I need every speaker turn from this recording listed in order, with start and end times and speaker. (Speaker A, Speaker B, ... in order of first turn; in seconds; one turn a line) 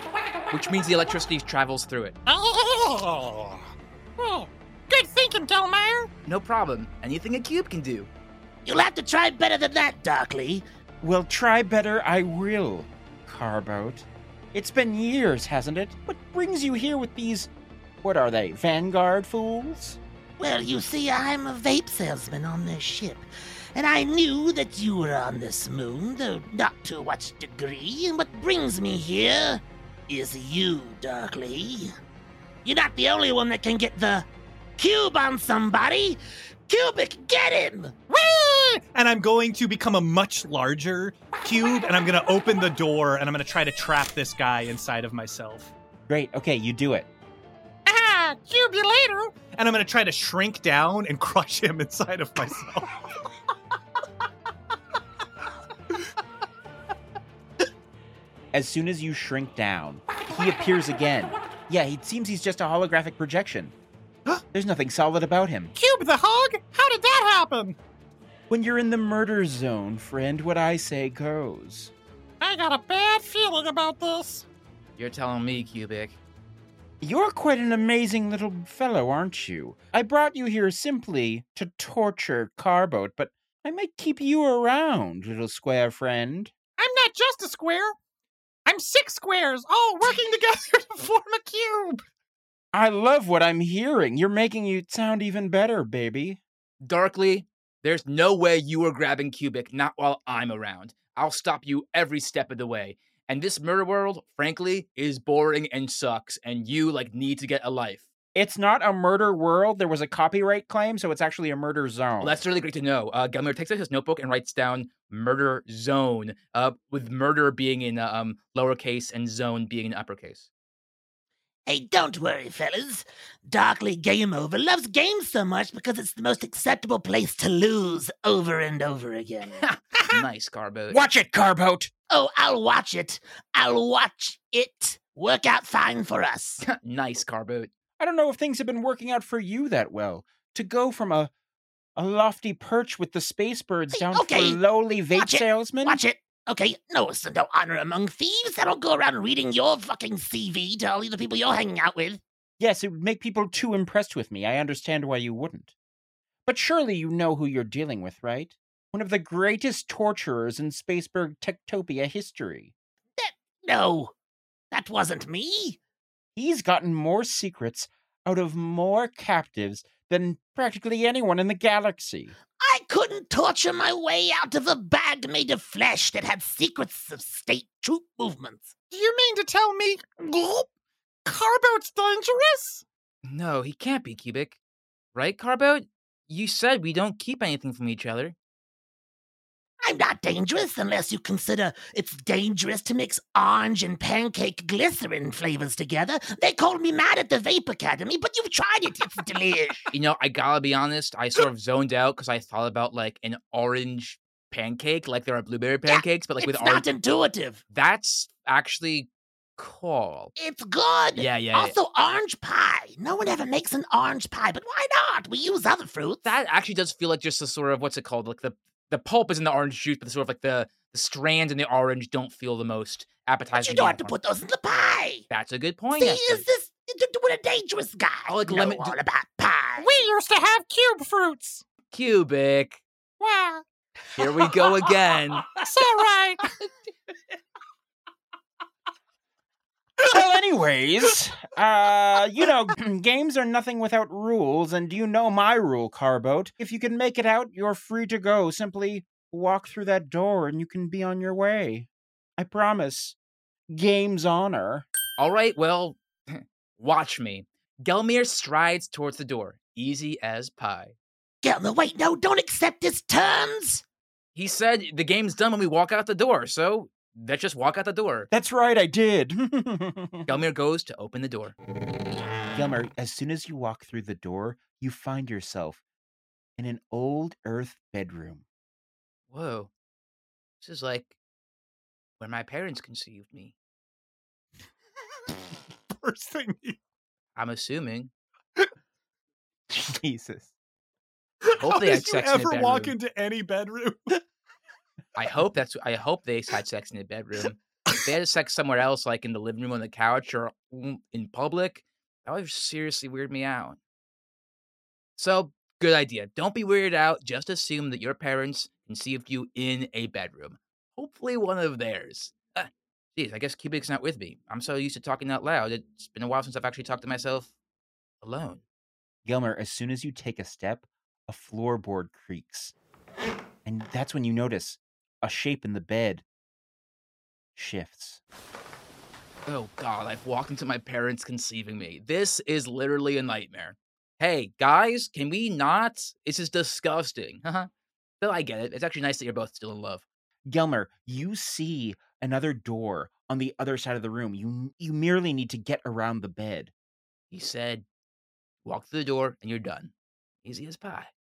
Speaker A: 0.5-2.1
Speaker B: 2.3-3.6
Speaker B: 4.2-6.1
Speaker A: 6.2-8.1
Speaker C: 8.7-10.7
Speaker D: 11.0-17.5
Speaker D: 18.0-20.0
Speaker C: 20.4-32.0
Speaker C: 32.6-37.9
Speaker B: 38.1-38.8
Speaker E: 38.9-45.7
Speaker D: 46.1-47.1
Speaker B: 47.9-49.3
Speaker E: 49.5-52.9
Speaker D: 58.5-63.7
Speaker D: 64.5-65.7
Speaker B: 65.8-67.8
Speaker D: 68.5-71.9
Speaker B: 72.4-74.4
Speaker A: 75.0-76.2
Speaker D: 77.0-86.5
Speaker B: 86.8-87.9
Speaker B: 88.7-92.0
Speaker D: 92.7-96.4
Speaker A: 96.8-108.0
Speaker D: 108.3-112.4
Speaker A: 112.2-120.5
Speaker C: 121.7-129.7
Speaker A: 129.6-131.1
Speaker D: 130.9-131.9
Speaker C: 132.1-136.6
Speaker A: 136.6-137.7
Speaker D: 138.0-141.3
Speaker D: 141.9-146.0
Speaker C: 143.9-144.6
Speaker C: 145.1-152.2
Speaker D: 152.6-155.7
Speaker D: 156.4-162.7
Speaker C: 163.2-164.1
Speaker C: 164.7-165.8
Speaker D: 166.4-172.3
Speaker C: 172.6-178.7
Speaker B: 178.9-180.6
Speaker B: 181.3-182.8
Speaker A: 183.2-184.6
Speaker A: 185.1-188.3
Speaker C: 189.8-199.9
Speaker A: 199.9-206.9
Speaker C: 205.9-207.6
Speaker A: 207.7-210.3
Speaker C: 210.4-216.3
Speaker A: 211.1-211.8
Speaker A: 216.2-224.1
Speaker C: 223.6-225.3
Speaker A: 225.3-226.4
Speaker C: 225.9-229.9
Speaker A: 228.3-229.0
Speaker B: 229.8-231.6
Speaker A: 231.9-232.8
Speaker B: 233.2-233.6
Speaker A: 234.2-235.5
Speaker B: 235.7-236.4
Speaker D: 240.0-253.2
Speaker D: 253.7-254.8
Speaker A: 255.2-260.9
Speaker C: 261.4-263.8
Speaker A: 264.3-268.3
Speaker D: 268.3-270.3
Speaker A: 270.3-271.6
Speaker D: 272.5-275.8
Speaker D: 276.6-278.4
Speaker A: 279.3-279.7
Speaker A: 280.6-281.1
Speaker A: 282.2-283.6
Speaker E: 286.0-286.7
Speaker A: 287.4-288.1
Speaker D: 289.7-290.5
Speaker E: 291.4-294.2
Speaker A: 291.5-292.9
Speaker A: 295.1-303.8
Speaker A: 305.2-317.5
Speaker A: 318.2-318.6
Speaker D: 319.2-322.7
Speaker D: 323.6-326.2
Speaker D: 327.6-328.2
Speaker A: 329.5-337.7
Speaker A: 338.2-340.1
Speaker D: 340.5-346.7
Speaker A: 347.3-347.8
Speaker A: 348.6-349.9
Speaker A: 350.4-351.1